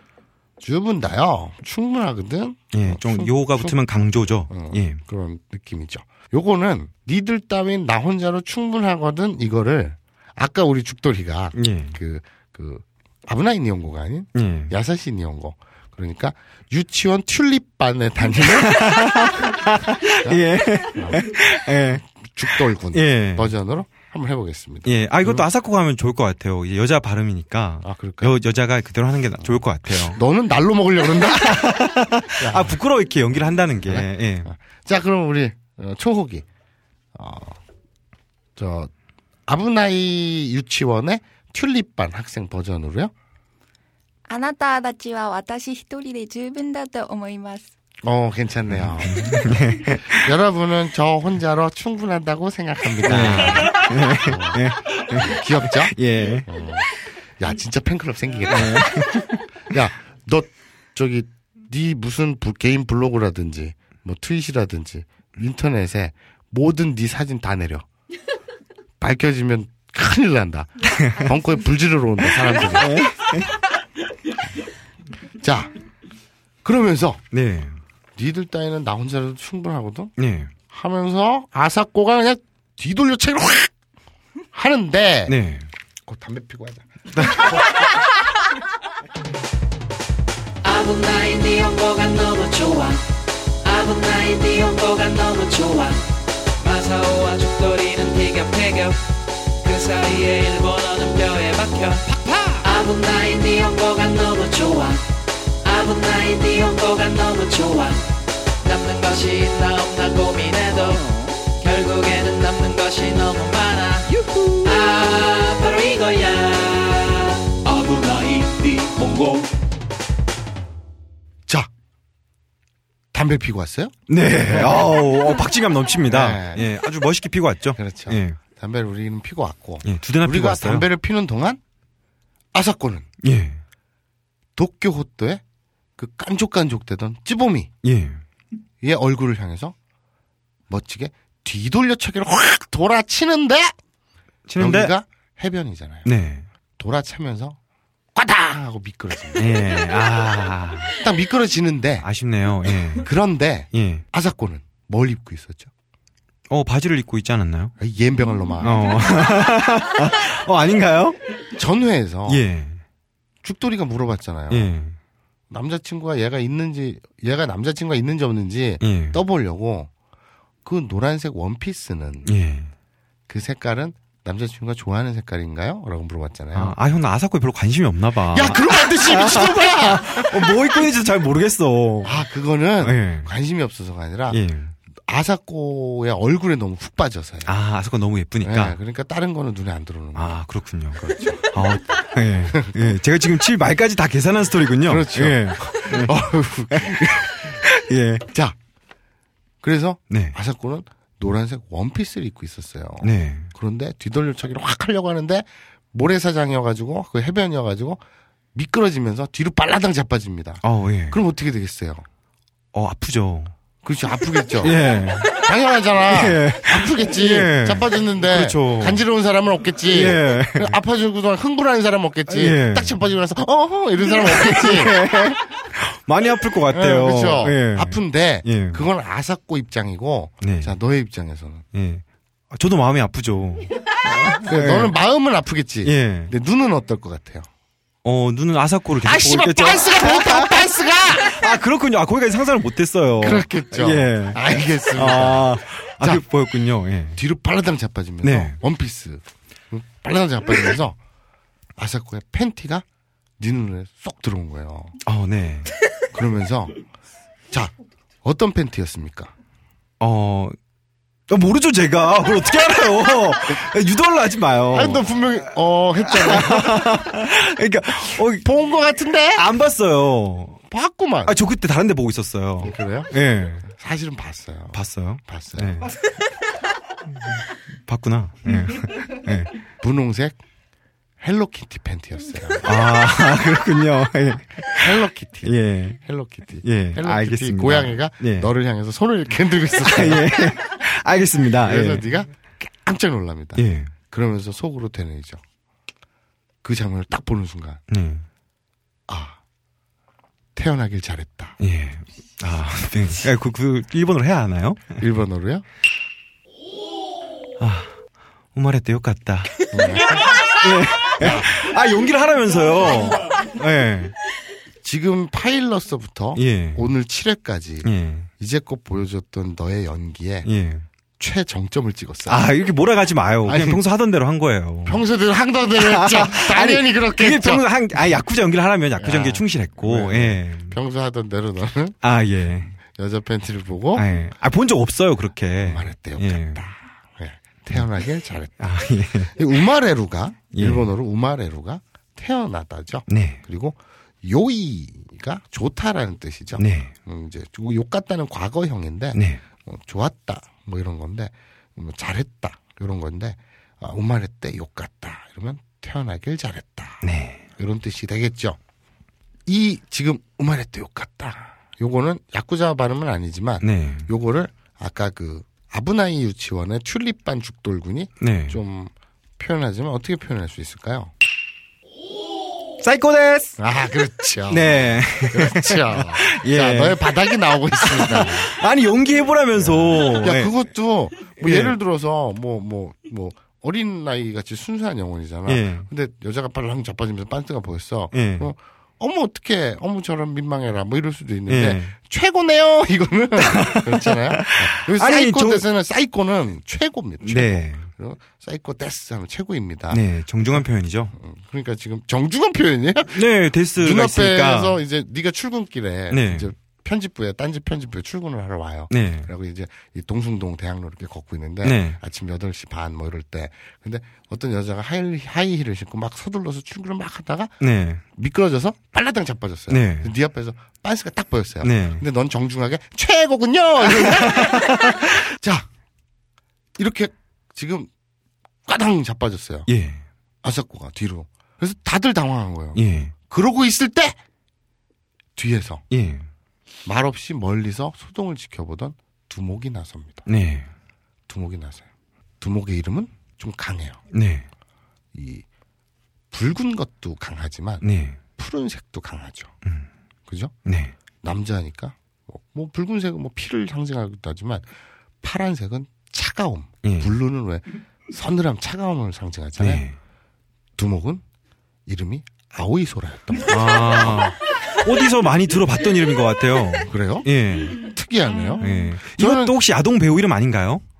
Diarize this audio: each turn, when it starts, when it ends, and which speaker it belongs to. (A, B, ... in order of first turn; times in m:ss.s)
0:00.6-0:03.8 A
0:02.7-0:05.0 B
0:04.5-0:19.4 A
0:11.6-0:12.0 B
0:14.4-0:14.7 B
0:18.4-0:23.5 B
0:20.1-0:21.2 A
0:22.3-0:25.4 A
0:24.9-0:30.2 B
0:27.8-0:28.4 A
0:29.4-0:32.8 A
0:31.0-0:34.5 B
0:33.9-0:36.4 A
0:37.2-0:37.6 A
0:38.6-0:38.9 A
0:39.5-0:43.1 A
0:44.3-0:47.7 C
0:48.0-0:56.9 A
0:48.7-0:50.3 B
0:53.0-0:56.5 B
0:57.4-0:59.0 A
0:58.5-0:59.4 B
0:59.7-1:07.9 A
1:09.0-1:13.0 A
1:12.5-1:13.5 B
1:15.4-1:15.7 A
1:16.6-1:17.2 A
1:17.3-1:17.8 B
1:18.2-1:20.1 A
1:20.2-1:20.5 B
1:20.7-1:23.7 A
1:24.5-1:25.4 A
1:25.3-1:25.7 B
1:26.1-1:27.8 A
1:27.1-1:27.6 B
1:30.6-1:33.0 D
1:33.6-1:36.0 D
1:36.6-1:39.1 D
1:39.6-1:42.0 D
1:42.1-1:42.6 A
1:42.6-1:45.0 D
1:45.6-1:48.0 D
1:48.6-1:59.5 D
2:03.1-2:05.0 A
2:04.1-2:08.4 B
2:06.1-2:06.7 A
2:07.8-2:11.6 A
2:09.8-2:10.9 B
2:12.5-2:13.1 A
2:13.2-2:13.6 B
2:14.6-2:15.4 A
2:16.0-2:17.7 A
2:17.8-2:18.2 B
2:18.8-2:19.8 A
2:20.7-2:23.8 A
2:24.5-2:24.9 B
2:24.6-2:26.1 A
2:26.0-2:26.5 B
2:26.8-2:27.6 A
2:28.2-2:29.5 A
2:29.4-2:30.9 B
2:31.0-2:32.1 A
2:32.0-2:33.1 B
2:33.0-2:35.7 A
2:33.7-2:34.0 B
2:36.5-2:37.8 B
2:37.8-2:38.8 A
2:38.6-2:41.2 B
2:41.6-2:42.4 A
2:42.3-2:42.8 B
2:43.4-2:44.7 A
2:44.5-2:45.0 B
2:45.5-2:49.9 A
2:48.8-2:49.2 B
2:50.6-2:52.3 A
2:52.3-2:52.7 B
2:53.3-2:56.8 A
2:56.5-3:02.2 B
2:58.3-3:00.6 A
3:02.0-3:04.4 A
3:02.8-3:03.3 B
3:04.3-3:04.8 B
3:05.1-3:07.5 A
3:07.5-3:08.8 B
3:08.4-3:10.3 A
3:10.2-3:18.3 B
3:11.0-3:11.5 A
3:14.9-3:17.6 A
3:18.3-3:18.6 A
3:19.6-3:28.0 A
3:20.1-3:20.4 B
3:23.0-3:23.5 B
3:28.6-3:32.0 A
3:30.6-3:31.2 B
3:32.7-3:33.5 B
3:33.8-3:45.1 A
3:34.6-3:35.4 B
3:36.0-3:39.0 B
3:39.9-3:40.8 B
3:42.3-3:43.0 B
3:44.0-3:48.9 B
3:46.7-3:51.6 A
3:50.4-3:50.8 B
3:51.7-3:55.0 B
3:54.3-3:57.5 A
3:55.8-3:56.3 B
3:58.0-4:07.2 B
3:59.0-4:01.4 A
4:03.2-4:06.2 A
4:07.2-4:11.0 A
4:08.2-4:08.6 B
4:11.8-4:12.8 A
4:13.4-4:14.9 A
4:15.0-4:15.7 B
4:16.1-4:16.8 A
4:18.2-4:19.3 A
4:20.0-4:20.6 B
4:21.3-4:25.1 B
4:24.7-4:27.1 A
4:26.0-4:28.4 B
4:28.4-4:29.5 A
4:29.4-4:30.6 B
4:30.7-4:31.4 A
4:31.3-4:33.7 B
4:32.6-4:33.1 A
4:33.6-4:35.9 A
4:34.7-4:35.9 B
4:37.7-4:39.5 B
4:39.8-4:40.4 A
4:41.2-4:42.7 A
4:42.6-4:46.0 B
4:44.8-4:50.5 A
4:46.6-4:48.5 B
4:49.8-4:52.1 B
4:51.6-4:55.4 A
4:53.6-4:53.9 B
4:56.6-4:57.8 A
4:57.9-4:58.3 B
4:59.1-4:59.4 A
5:00.6-5:01.6 A
5:01.6-5:05.0 B
5:05.0-5:05.6 A
5:07.6-5:08.0 B
5:08.5-5:14.2 B
5:09.7-5:10.5 A
5:11.0-5:11.5 A
5:14.8-5:20.5 A
5:16.4-5:16.8 B
5:17.8-5:18.3 B
5:20.4-5:20.9 B
5:21.2-5:22.5 A
5:22.3-5:25.0 B
5:23.4-5:23.8 A
5:24.9-5:28.2 A
5:25.8-5:30.8 B
5:29.0-5:32.0 A
5:32.0-5:32.7 B
5:33.0-5:34.1 A
5:33.9-5:36.6 B
5:35.6-5:38.6 A
5:38.6-5:39.4 B
5:39.4-5:57.0 A
5:40.5-5:40.9 B
5:43.1-5:43.4 B
5:46.6-5:46.9 B
5:49.1-5:49.4 B
5:57.0-5:57.5 B
5:57.6-5:58.6 A
5:59.5-6:11.1 A
6:03.6-6:04.1 B
6:08.2-6:08.6 B
6:12.8-6:13.6 B
6:13.6-6:18.5 A
6:14.5-6:17.2 B
6:17.8-6:20.6 B
6:19.6-6:43.2 A
6:21.4-6:21.8 B
6:25.5-6:25.9 B
6:28.1-6:28.5 B
6:31.5-6:31.9 B
6:33.4-6:35.7 B
6:37.2-6:37.9 B
6:39.9-6:41.1 B
6:43.1-6:44.8 B
6:43.8-6:57.5 A
6:46.1-6:46.5 B
6:48.9-6:49.3 B
6:51.6-6:52.0 B
6:57.6-6:58.0 B
6:58.2-7:05.7 A
6:59.7-7:00.1 B
7:01.6-7:02.0 B
7:03.8-7:05.1 B
7:06.8-7:07.9 A
7:08.7-7:09.7 A
7:09.7-7:10.0 B
7:10.4-7:14.2 A
7:12.8-7:13.1 B
7:15.4-7:15.8 A
7:15.9-7:16.3 B
7:16.9-7:20.3 A
7:20.3-7:20.7 B
7:21.3-7:21.9 A
7:22.4-7:24.0 A
7:24.1-7:24.5 B
7:25.1-7:25.4 A
7:26.3-7:27.8 A
7:27.8-7:28.2 B
7:28.4-7:29.5 A
7:30.3-7:30.5 A
7:30.6-7:31.0 B
7:31.2-7:34.7 A
7:35.2-7:39.8 A
7:36.8-7:37.1 B
7:39.6-7:40.0 B
7:40.8-7:41.2 A
7:41.9-7:44.2 A
7:43.5-7:47.9 B
7:46.9-7:49.6 A
7:48.6-7:50.8 B